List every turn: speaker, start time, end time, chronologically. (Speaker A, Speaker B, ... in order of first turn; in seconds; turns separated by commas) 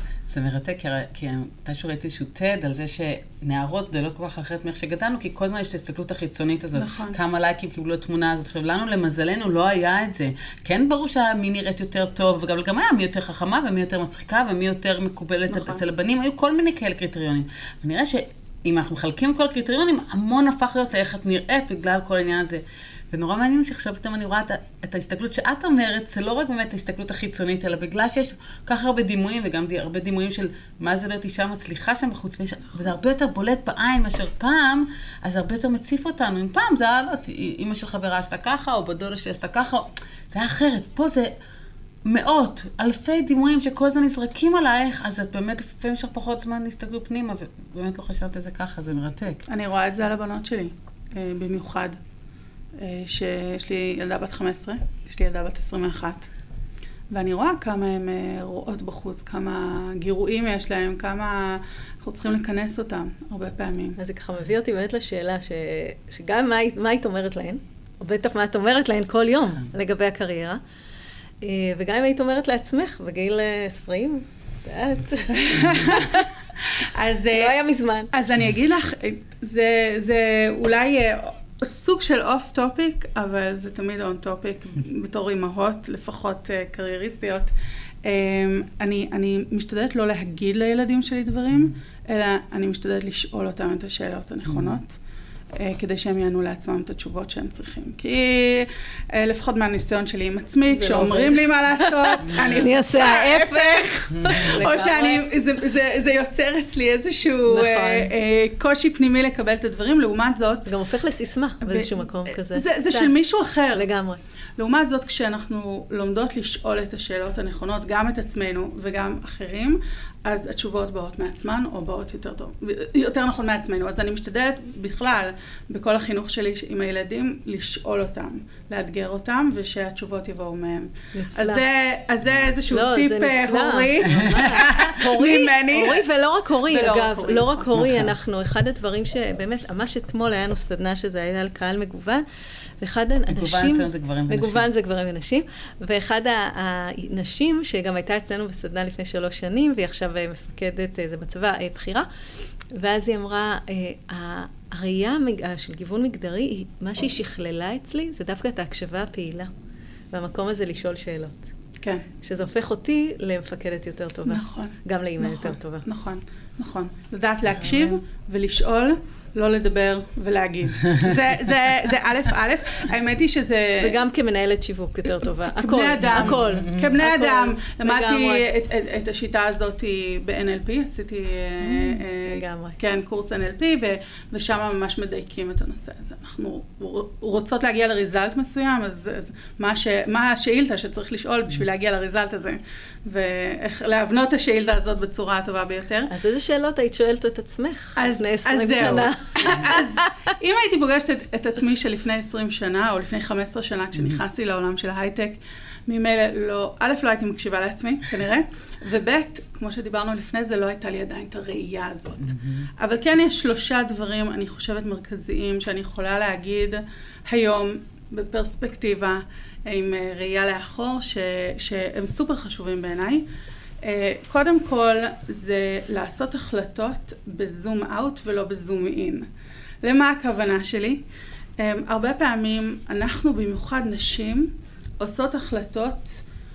Speaker A: 0.3-41.3, Speaker B: 6.8-7.2, Speaker B: 15.5-15.8, Speaker A: 42.0-49.4, Speaker B: 49.5-52.0, Speaker B: 52.8-56.3, Speaker B: 57.1-64.0, Speaker C: 64.0-70.6, Speaker C: 71.4-76.3, Speaker B: 75.3-77.6, Speaker C: 77.3-78.1, Speaker B: 78.1-95.0, Speaker A: 94.5-94.8, Speaker B: 95.5-110.7, Speaker C: 100.7-105.2, Speaker A: 102.3-102.6, Speaker C: 107.5-108.1, Speaker C: 110.7-113.1, Speaker B: 111.6-113.9, Speaker C: 113.7-114.2, Speaker B: 114.6-136.1, Speaker C: 131.1-131.6, Speaker C: 132.7-142.2, Speaker A: 134.1-135.0, Speaker B: 136.7-137.7, Speaker A: 137.7-138.1, Speaker C: 142.8-152.1, Speaker A: 143.3-144.7, Speaker C: 152.7-159.5, Speaker C: 160.1-161.4, Speaker B: 161.8-162.1, Speaker C: 162.2-165.9, Speaker B: 164.3-174.0, Speaker C: 173.8-178.4, Speaker B: 175.2-196.1, Speaker A: 176.5-176.8, Speaker C: 181.6-182.8, Speaker C: 196.1-200.3, Speaker B: 197.9-223.3, Speaker B: 223.8-229.3, Speaker B: 229.8-231.0, Speaker B: 231.6-236.2